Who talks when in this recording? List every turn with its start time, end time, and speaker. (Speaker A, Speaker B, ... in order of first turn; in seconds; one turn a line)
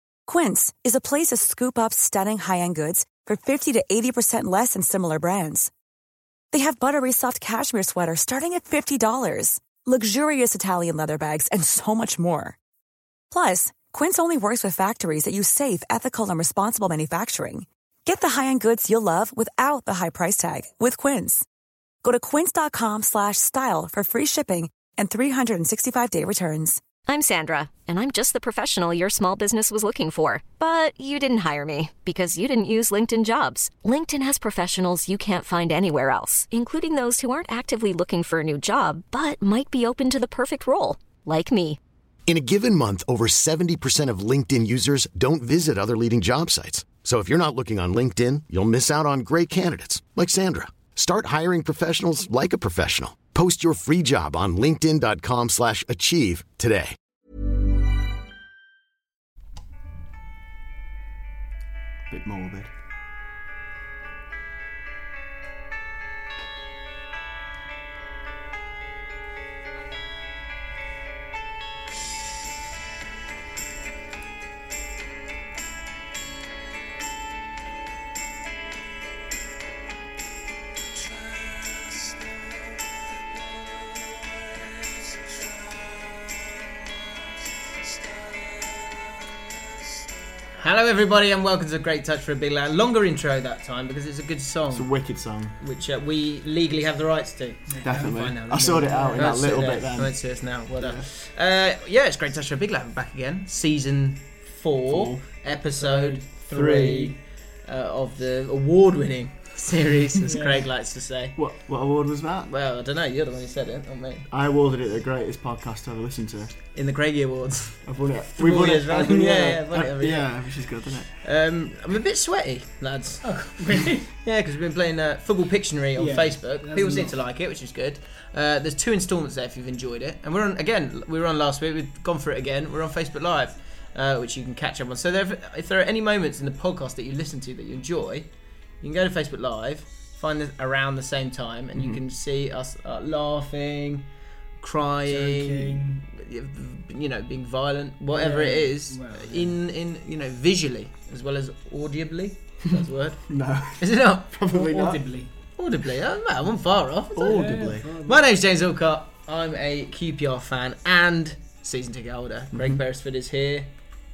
Speaker A: 0.3-5.7
Speaker A: 6.5-12.6
Speaker A: 13.3-21.4
Speaker A: 22.0-26.8
Speaker B: 27.1-41.8
Speaker C: 42.3-56.9
Speaker D: 62.1-62.7
Speaker E: 90.6-94.9
Speaker D: 94.7-95.5
Speaker E: 95.6-111.3
Speaker F: 97.7-99.3
Speaker D: 97.8-100.1
Speaker D: 104.9-105.2
Speaker F: 105.8-107.2
Speaker D: 106.5-106.9
Speaker F: 110.2-110.6
Speaker D: 111.4-112.5
Speaker E: 112.5-114.2
Speaker D: 114.3-116.5
Speaker E: 116.7-120.3
Speaker D: 117.8-121.1
Speaker E: 121.2-138.3
Speaker F: 123.2-124.1
Speaker F: 126.0-127.1
Speaker E: 138.8-144.1
Speaker D: 141.7-142.0
Speaker E: 144.6-153.2
Speaker F: 145.1-146.0
Speaker F: 148.1-149.6
Speaker D: 153.3-155.0
Speaker E: 153.8-154.4
Speaker F: 154.5-155.3
Speaker E: 155.6-157.3
Speaker D: 157.2-157.9
Speaker F: 157.2-158.2
Speaker E: 158.1-163.7
Speaker D: 162.5-162.8